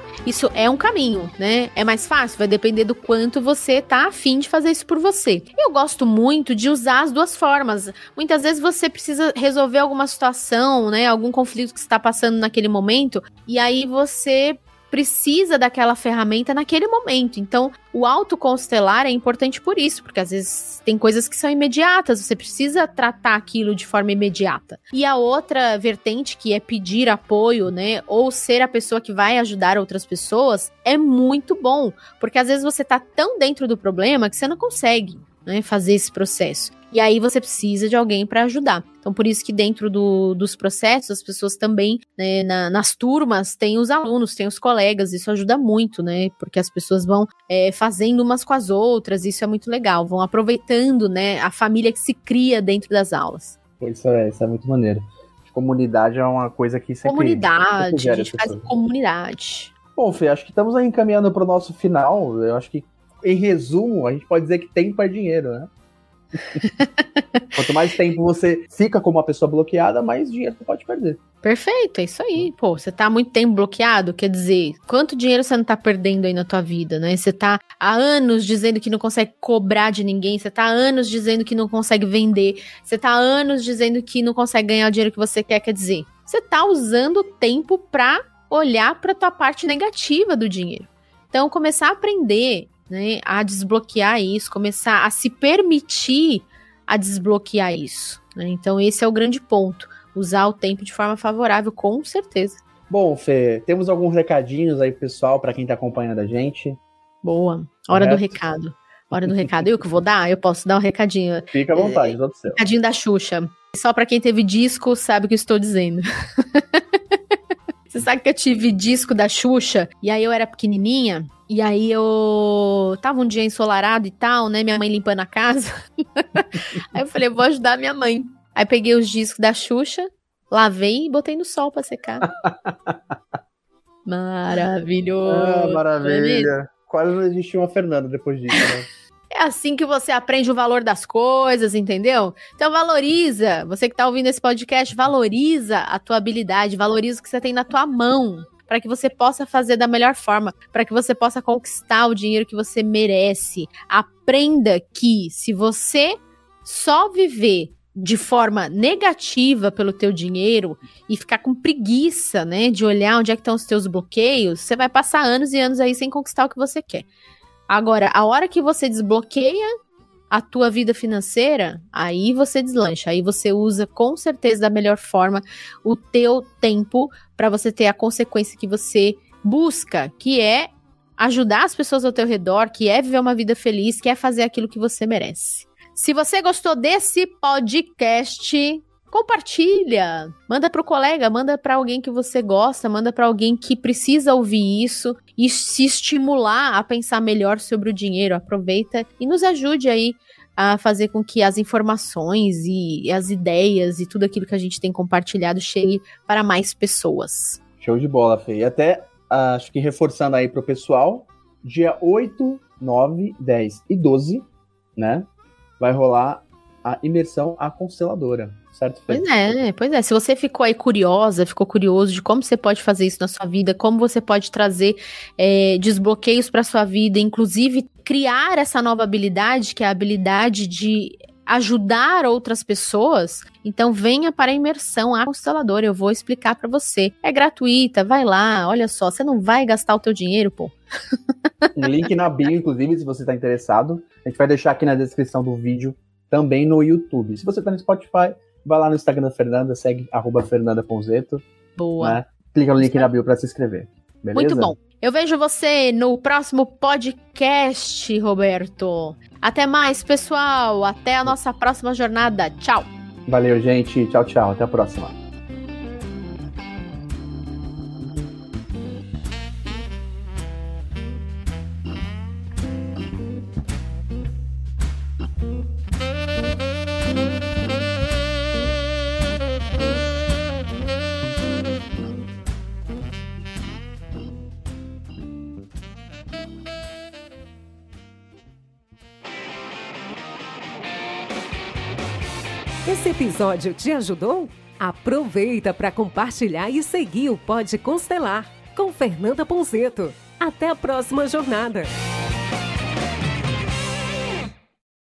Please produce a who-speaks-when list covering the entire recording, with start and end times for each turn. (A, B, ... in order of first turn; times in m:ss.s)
0:00.2-0:53.6 A
0:53.8-0:58.7 B
0:57.0-0:59.7 A
0:59.9-1:05.7 B
1:07.5-1:11.2 B
1:11.4-1:42.6 A
1:42.9-1:46.8 B
1:47.2-1:56.8 A
1:47.9-1:48.4 B
1:51.5-1:52.6 B
1:57.9-2:12.3 A
2:12.4-2:13.0 B
2:14.0-2:16.5 A
2:15.2-2:18.9 B
2:19.3-2:47.0 A
2:47.7-2:49.7 A
2:50.3-3:27.6 A
3:27.8-3:35.3 B
3:35.8-3:39.3 B
3:39.1-4:00.7 A
4:01.6-4:02.0 A
4:01.8-4:11.4 B
4:11.8-4:12.2 A
4:12.0-4:14.7 B
4:12.8-4:13.1 A
4:14.3-4:22.9 A
4:23.3-4:25.1 B
4:52.8-5:01.9 C